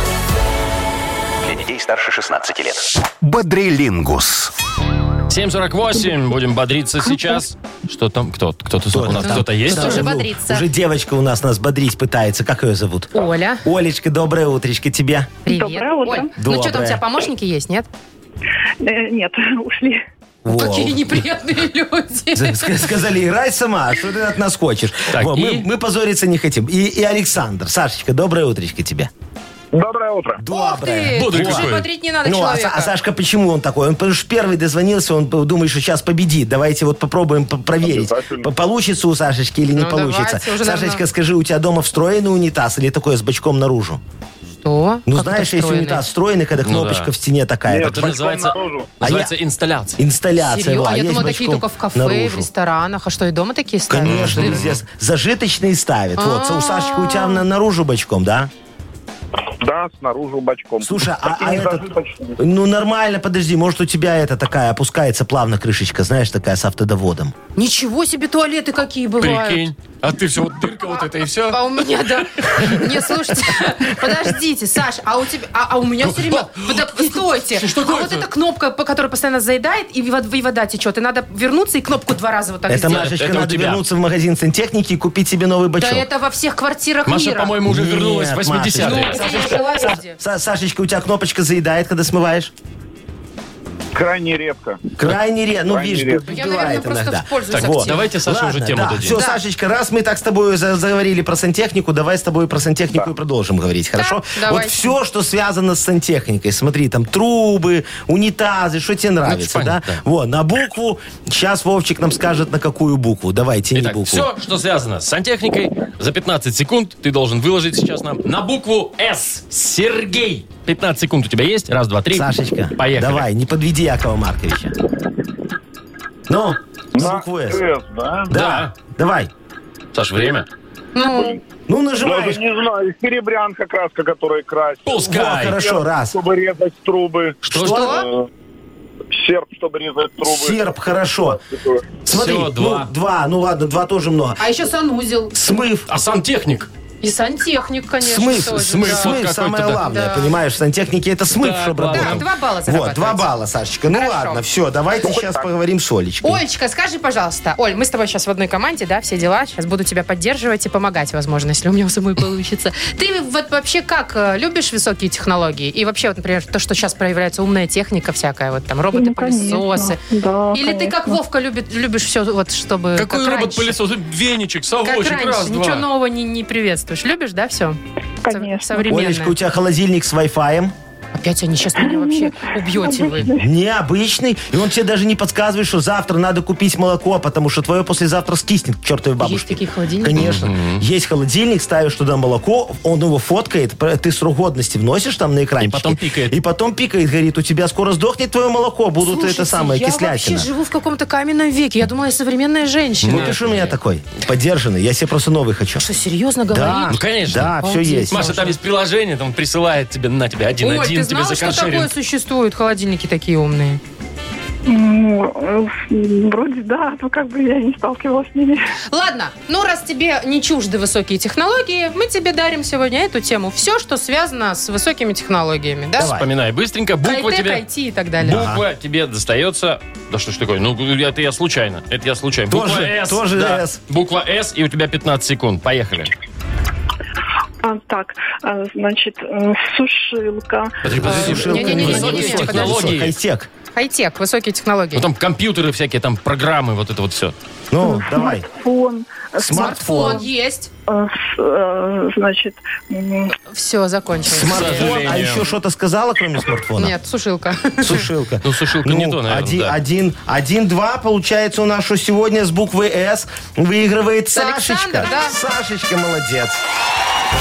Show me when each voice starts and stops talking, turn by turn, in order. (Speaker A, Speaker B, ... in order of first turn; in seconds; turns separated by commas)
Speaker A: 1.4-4.5, Speaker B: 5.3-10.1, Speaker C: 8.9-15.4, Speaker D: 9.1-10.7, Speaker D: 13.1-13.7, Speaker D: 15.5-17.9, Speaker E: 15.5-16.4, Speaker C: 16.4-17.0, Speaker E: 18.8-20.0, Speaker C: 20.4-21.2, Speaker D: 20.5-22.9, Speaker C: 22.3-29.1, Speaker B: 25.1-25.7, Speaker F: 29.7-30.4, Speaker C: 30.4-44.0, Speaker D: 30.5-32.9, Speaker B: 31.1-31.9, Speaker F: 37.8-38.5, Speaker D: 39.8-41.0, Speaker D: 44.6-46.0, Speaker C: 45.1-48.1, Speaker B: 46.6-47.1, Speaker F: 47.7-48.9, Speaker B: 47.7-50.0, Speaker C: 49.0-49.3, Speaker C: 50.0-52.5, Speaker D: 50.4-54.7, Speaker C: 53.9-58.5, Speaker B: 54.0-54.8, Speaker D: 56.2-57.5, Speaker F: 59.6-62.4, Speaker C: 60.8-67.3, Speaker D: 67.6-69.7, Speaker B: 69.2-71.8, Speaker D: 71.4-83.1, Speaker B: 72.4-72.9, Speaker B: 76.0-78.3, Speaker C: 82.7-86.1, Speaker B: 82.9-83.8, Speaker D: 85.8-87.6, Speaker B: 87.1-89.2, Speaker C: 87.7-92.5, Speaker D: 88.8-90.2, Speaker F: 93.9-95.0, Speaker C: 95.0-114.3, Speaker F: 95.6-96.3, Speaker D: 96.3-98.1, Speaker B: 97.5-99.2, Speaker D: 99.1-99.4, Speaker D: 104.0-105.0, Speaker B: 109.2-110.0, Speaker B: 113.8-123.3, Speaker C: 122.1-124.8, Speaker C: 126.3-127.6, Speaker F: 126.9-128.3, Speaker C: 128.3-129.3, Speaker B: 128.3-128.7, Speaker B: 129.9-130.5, Speaker D: 130.9-131.4, Speaker F: 131.1-131.4, Speaker C: 131.7-132.4, Speaker F: 132.0-135.0, Speaker B: 134.9-135.6, Speaker C: 135.0-136.2, Speaker F: 135.6-138.3, Speaker C: 137.4-138.0, Speaker B: 137.5-137.9, Speaker D: 137.6-138.1, Speaker F: 139.1-141.9, Speaker C: 140.2-141.4, Speaker C: 142.1-144.4, Speaker B: 142.1-142.9, Speaker D: 144.4-145.3, Speaker C: 145.3-145.9, Speaker B: 145.9-146.7, Speaker D: 147.0-149.2, Speaker C: 148.0-156.4, Speaker B: 148.5-149.8, Speaker D: 149.8-150.3, Speaker B: 151.3-152.2, Speaker D: 151.9-153.3, Speaker D: 153.9-154.4, Speaker F: 155.1-155.5, Speaker D: 156.2-170.0, Speaker E: 168.9-171.2, Speaker D: 170.5-173.7, Speaker B: 173.0-175.9, Speaker D: 174.8-179.3, Speaker E: 178.2-179.0, Speaker C: 178.9-180.7, Speaker D: 181.2-183.3, Speaker E: 181.8-183.5, Speaker C: 183.4-200.5, Speaker D: 189.2-190.3, Speaker B: 190.2-190.8, Speaker B: 195.6-196.4, Speaker D: 199.0-203.3, Speaker B: 203.0-203.8, Speaker C: 203.1-205.8, Speaker D: 205.8-207.0, Speaker C: 206.5-208.3, Speaker B: 206.9-207.6, Speaker D: 207.6-208.6, Speaker B: 208.1-211.9, Speaker D: 210.6-213.8, Speaker E: 214.7-218.6, Speaker D: 218.9-226.1, Speaker C: 226.0-226.3, Speaker B: 226.0-227.6, Speaker D: 227.0-228.4, Speaker B: 228.2-236.1, Speaker C: 228.2-228.7, Speaker C: 232.5-233.8, Speaker E: 237.6-241.6, Speaker B: 240.8-243.2, Speaker C: 240.9-243.5, Speaker D: 241.0-242.9, Speaker D: 243.8-245.1, Speaker B: 244.9-247.3, Speaker C: 247.7-248.5, Speaker E: 247.8-250.3, Speaker C: 249.4-250.2, Speaker D: 249.5-250.7, Speaker E: 250.9-253.3, Speaker D: 253.5-255.0, Speaker C: 254.3-256.9, Speaker B: 254.4-255.5, Speaker D: 256.8-258.1, Speaker C: 257.8-266.6, Speaker B: 258.4-259.8, Speaker D: 264.3-265.4